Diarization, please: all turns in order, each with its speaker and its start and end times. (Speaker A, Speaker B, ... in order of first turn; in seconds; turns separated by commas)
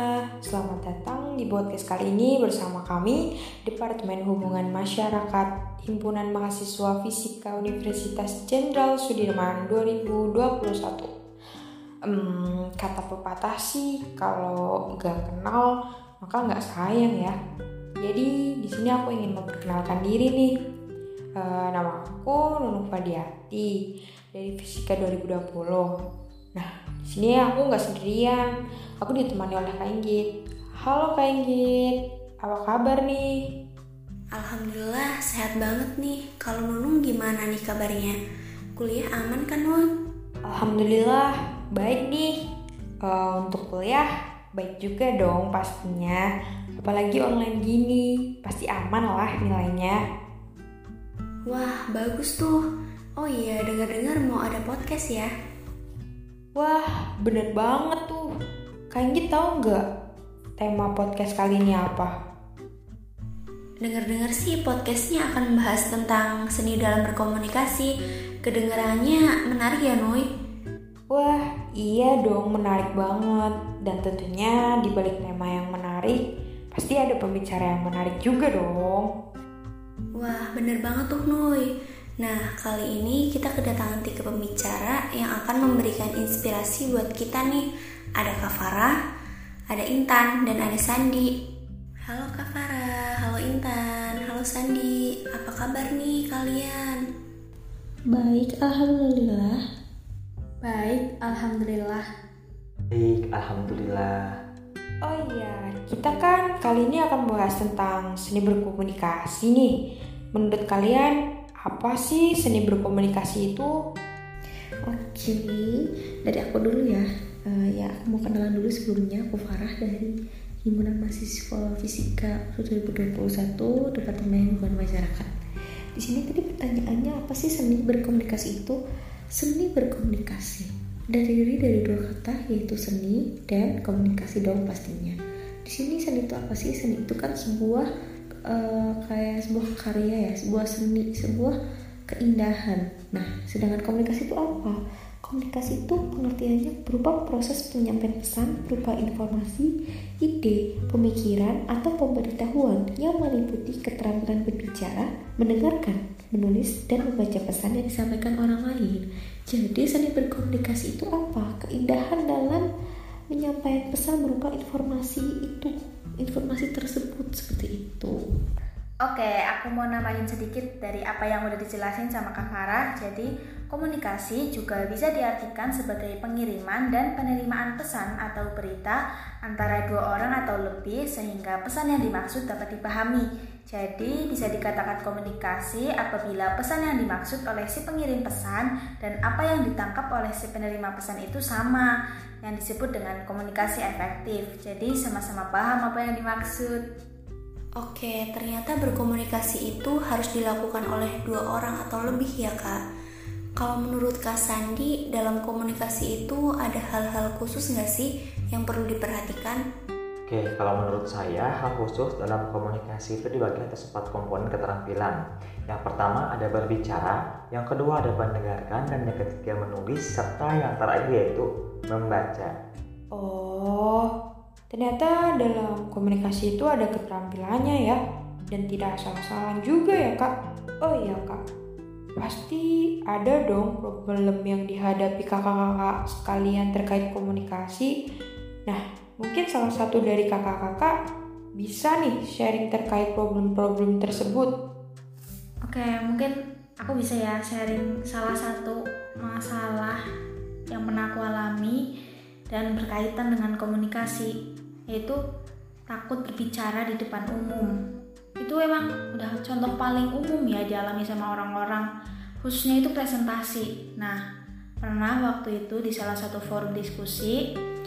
Speaker A: 0.4-11.1, Speaker A: 12.1-17.4, Speaker A: 18.0-20.5, Speaker A: 21.4-23.7, Speaker A: 24.3-25.9, Speaker A: 26.5-28.5, Speaker A: 29.0-30.2, Speaker A: 30.8-33.3, Speaker B: 34.3-38.1, Speaker B: 38.8-39.8, Speaker A: 40.5-42.3, Speaker A: 43.0-50.0, Speaker B: 51.5-52.6, Speaker B: 53.2-55.3, Speaker A: 56.5-58.3, Speaker A: 58.9-59.8, Speaker A: 60.6-62.1, Speaker B: 63.8-67.9, Speaker B: 68.4-70.2, Speaker A: 71.1-76.2, Speaker A: 76.7-79.1, Speaker B: 80.2-81.7, Speaker B: 82.2-87.6, Speaker B: 88.2-88.9, Speaker B: 89.7-91.3, Speaker B: 92.1-97.0, Speaker C: 98.1-99.6, Speaker D: 100.6-102.0, Speaker E: 102.9-104.3, Speaker A: 105.0-109.7, Speaker A: 110.3-113.7, Speaker C: 114.9-120.1, Speaker C: 120.6-125.3, Speaker C: 126.0-128.8, Speaker C: 129.3-137.9, Speaker C: 138.5-141.6, Speaker C: 142.1-149.7, Speaker C: 150.2-162.7, Speaker C: 163.3-168.2, Speaker D: 169.0-191.9, Speaker D: 192.4-196.8, Speaker B: 197.8-202.8, Speaker B: 203.6-209.6, Speaker E: 210.3-222.5, Speaker A: 223.1-224.1, Speaker A: 224.7-228.0, Speaker A: 228.5-230.3, Speaker A: 230.8-231.4, Speaker A: 232.2-237.9, Speaker A: 238.7-240.9, Speaker A: 241.6-244.5, Speaker D: 245.7-250.0, Speaker D: 250.7-251.8, Speaker D: 252.5-254.3, Speaker D: 254.9-255.2, Speaker D: 255.9-257.7, Speaker D: 258.4-261.9, Speaker D: 262.4-264.1, Speaker D: 264.8-267.4